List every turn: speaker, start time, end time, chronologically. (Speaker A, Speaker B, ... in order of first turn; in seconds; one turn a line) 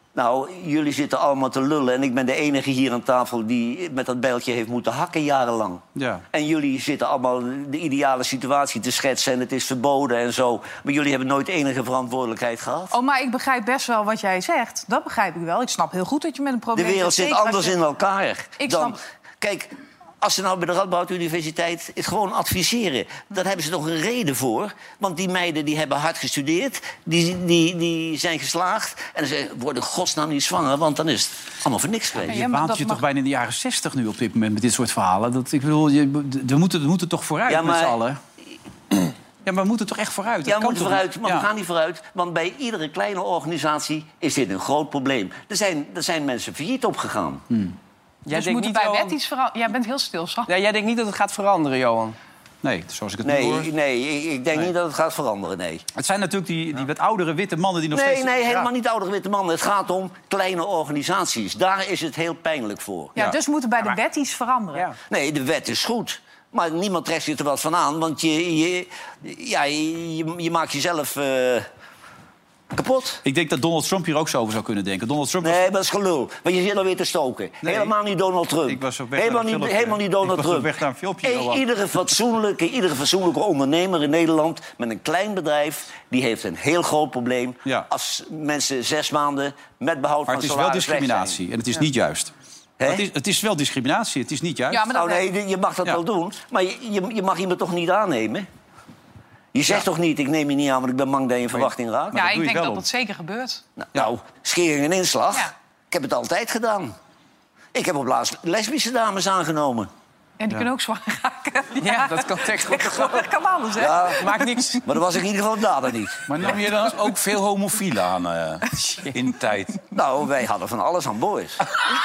Speaker A: 0.1-12.9
Speaker B: 6.0-6.2
Speaker C: 12.9-17.8
Speaker A: 16.8-19.7
Speaker C: 18.6-19.0
Speaker A: 20.2-32.4
Speaker C: 32.3-33.0
Speaker B: 32.3-38.2
Speaker A: 37.5-38.0
Speaker B: 39.5-41.5
Speaker A: 40.5-47.5
Speaker B: 47.5-47.8
Speaker D: 48.3-49.1
Speaker C: 48.3-50.5
Speaker D: 50.5-52.2
Speaker B: 52.6-53.7
Speaker A: 53.2-55.9
Speaker B: 56.0-58.4
Speaker A: 57.9-63.1
Speaker C: 63.2-64.9
Speaker A: 65.1-71.7
Speaker A: 72.7-73.2
Speaker B: 73.2-75.7
Speaker A: 75.4-91.4
Speaker B: 77.6-77.9
Speaker B: 78.7-81.6
Speaker B: 90.3-92.3
Speaker A: 92.8-93.0
Speaker B: 92.8-94.9
Speaker C: 94.7-95.2
Speaker A: 94.9-98.5
Speaker A: 99.5-102.2
Speaker B: 101.5-102.8
Speaker C: 102.1-103.6
Speaker A: 103.8-106.9
Speaker A: 107.7-109.9
Speaker C: 110.4-114.4
Speaker D: 111.8-113.3
Speaker A: 113.8-114.3
Speaker D: 114.2-114.8
Speaker A: 114.8-116.3
Speaker B: 116.3-116.7
Speaker E: 116.3-119.8
Speaker D: 118.8-119.2
Speaker A: 119.9-121.6